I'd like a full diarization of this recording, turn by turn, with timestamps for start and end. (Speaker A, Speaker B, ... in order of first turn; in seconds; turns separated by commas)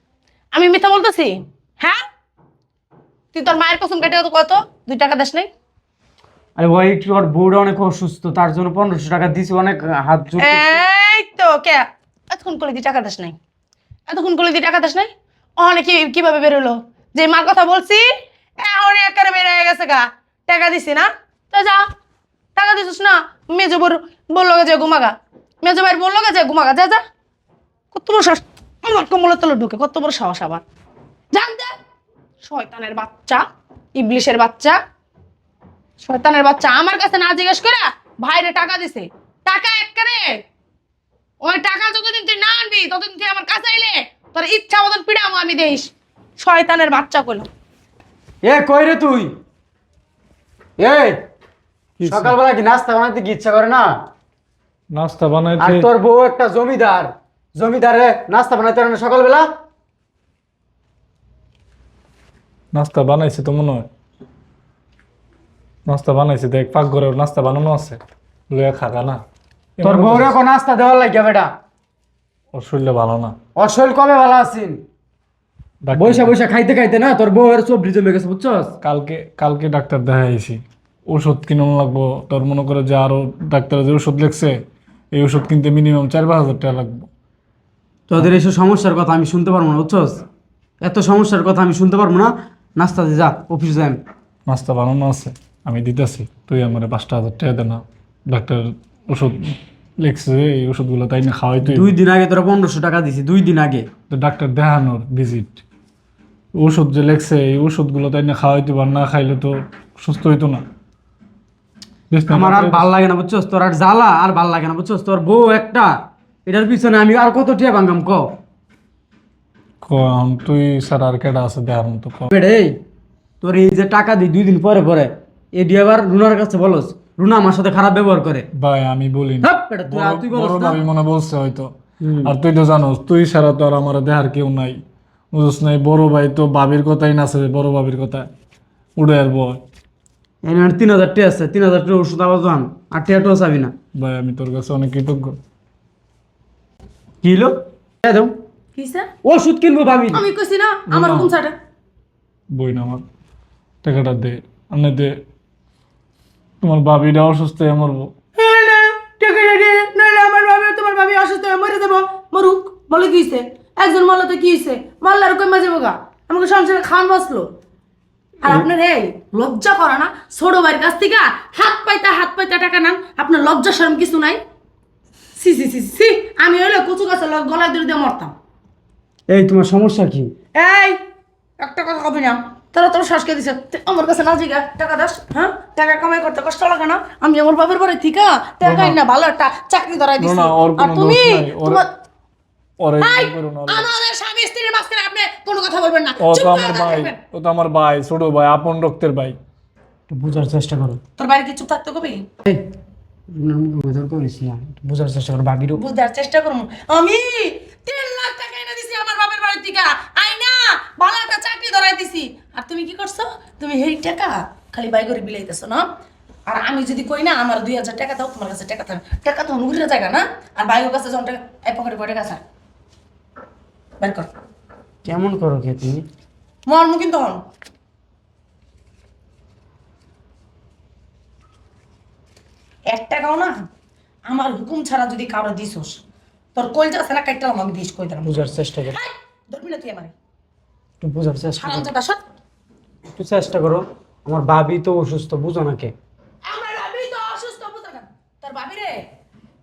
Speaker A: 0.5-2.0, Speaker A: 3.3-5.5, Speaker B: 6.6-10.8, Speaker A: 10.4-13.4, Speaker A: 14.1-18.1, Speaker A: 18.6-21.9, Speaker A: 22.6-27.0, Speaker A: 27.9-30.6, Speaker A: 31.3-31.8, Speaker A: 32.4-33.4, Speaker A: 34.0-34.8, Speaker A: 36.0-40.4, Speaker A: 41.4-47.5, Speaker B: 48.4-49.3, Speaker B: 50.8-51.2, Speaker C: 52.0-52.4, Speaker B: 52.0-54.0, Speaker C: 54.9-55.9, Speaker B: 55.6-59.5, Speaker C: 62.7-63.9, Speaker C: 65.9-68.0, Speaker C: 68.5-69.2, Speaker C: 69.8-70.3, Speaker B: 69.8-71.5, Speaker C: 72.5-73.3, Speaker B: 73.6-74.8, Speaker C: 75.8-76.3, Speaker B: 75.9-78.7, Speaker C: 78.8-84.6, Speaker C: 85.1-87.1, Speaker B: 88.1-90.2, Speaker B: 90.8-94.0, Speaker C: 94.5-101.9, Speaker B: 101.7-103.9, Speaker C: 104.1-105.6, Speaker C: 106.5-110.7, Speaker C: 112.1-112.9, Speaker B: 112.3-115.9, Speaker B: 116.5-118.3, Speaker C: 119.8-122.3, Speaker B: 122.3-122.8, Speaker B: 123.4-128.5, Speaker C: 128.6-131.7, Speaker B: 129.4-130.8, Speaker B: 132.0-132.3, Speaker C: 132.2-134.8, Speaker C: 135.3-138.3, Speaker C: 139.0-139.6, Speaker B: 140.4-143.7, Speaker C: 143.9-145.4, Speaker B: 147.2-148.3, Speaker A: 148.8-149.1, Speaker B: 149.2-150.3, Speaker A: 150.1-151.6, Speaker C: 150.9-151.3, Speaker C: 152.5-153.0, Speaker C: 153.8-155.2, Speaker C: 156.6-158.1, Speaker A: 158.4-167.5, Speaker A: 168.4-174.4, Speaker A: 175.4-178.3, Speaker B: 179.3-180.3, Speaker A: 180.6-181.0, Speaker A: 181.6-191.9, Speaker C: 188.6-189.0, Speaker C: 190.2-191.8, Speaker C: 192.8-193.9, Speaker A: 193.0-197.2, Speaker C: 196.2-199.4, Speaker B: 200.1-201.0, Speaker A: 201.2-202.3, Speaker B: 203.3-205.8, Speaker A: 205.8-215.9, Speaker A: 216.5-222.4, Speaker A: 224.0-224.3, Speaker B: 225.1-226.0, Speaker A: 226.7-227.4, Speaker A: 232.9-233.6, Speaker A: 234.3-236.0, Speaker A: 236.6-240.1, Speaker B: 238.2-239.0, Speaker B: 241.0-241.9, Speaker A: 241.6-242.2, Speaker B: 243.1-245.9, Speaker A: 246.5-249.1